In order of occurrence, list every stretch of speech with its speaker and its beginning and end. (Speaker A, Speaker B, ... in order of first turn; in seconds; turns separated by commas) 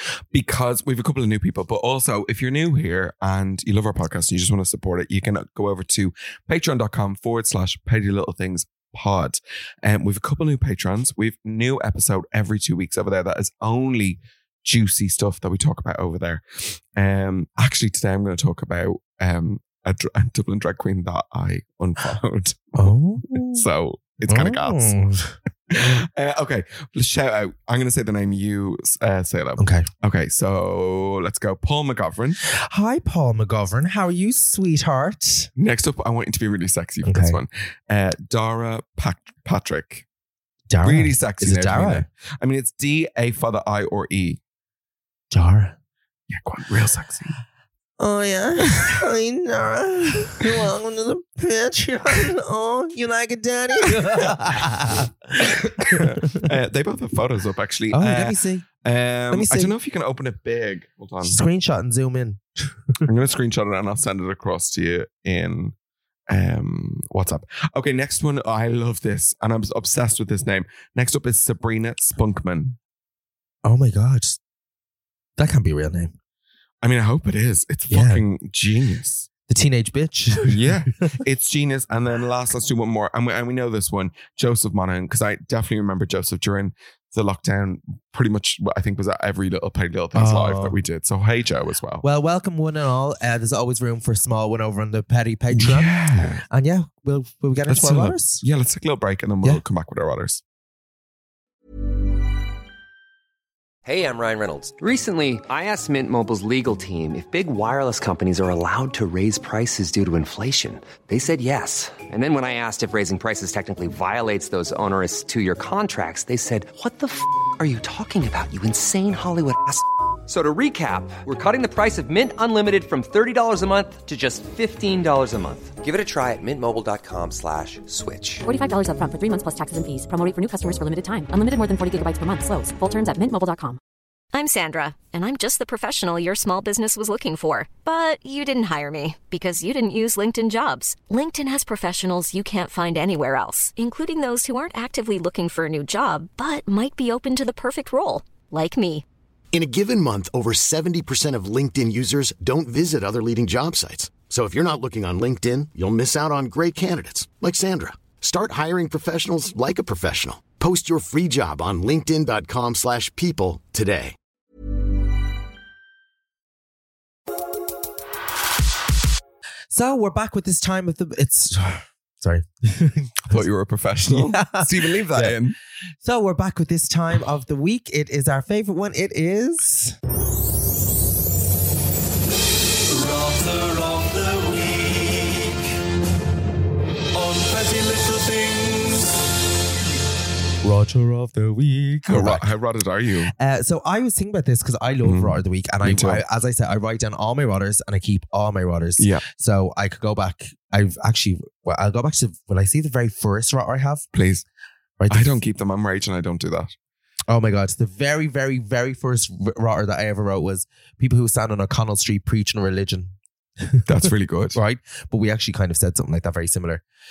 Speaker A: 0.3-25.0, Speaker B: 22.8-23.6, Speaker B: 24.2-25.4, Speaker A: 25.7-32.4, Speaker B: 29.6-29.9, Speaker B: 32.5-35.5, Speaker A: 35.6-40.0, Speaker B: 37.0-37.4, Speaker B: 40.7-42.0, Speaker A: 40.8-44.4, Speaker B: 45.3-45.8, Speaker A: 46.3-47.3, Speaker B: 48.0-56.4, Speaker A: 53.9-54.4, Speaker A: 55.4-61.4, Speaker B: 57.9-58.7, Speaker B: 59.3-59.7, Speaker B: 61.2-63.0, Speaker A: 63.0-65.7, Speaker A: 66.3-72.8, Speaker B: 73.6-74.4, Speaker B: 75.4-76.1, Speaker A: 76.8-79.3, Speaker B: 77.9-78.2, Speaker B: 79.5-80.6, Speaker A: 80.4-92.0, Speaker B: 90.1-90.8, Speaker B: 92.0-98.4, Speaker A: 95.5-96.4, Speaker A: 97.7-100.4, Speaker C: 103.8-128.4, Speaker D: 128.4-133.8, Speaker E: 134.3-149.0, Speaker F: 149.5-164.1, Speaker B: 169.7-173.4, Speaker A: 173.3-175.6, Speaker B: 174.1-175.4, Speaker B: 176.0-179.9, Speaker C: 184.2-185.2, Speaker C: 187.7-188.1, Speaker B: 190.6-192.4, Speaker A: 192.1-193.3, Speaker B: 193.3-204.1, Speaker A: 195.0-196.2, Speaker A: 199.0-199.2, Speaker A: 204.1-204.4, Speaker B: 205.0-205.3, Speaker A: 205.1-206.7, Speaker B: 207.3-214.0, Speaker A: 213.8-214.6, Speaker B: 214.5-216.8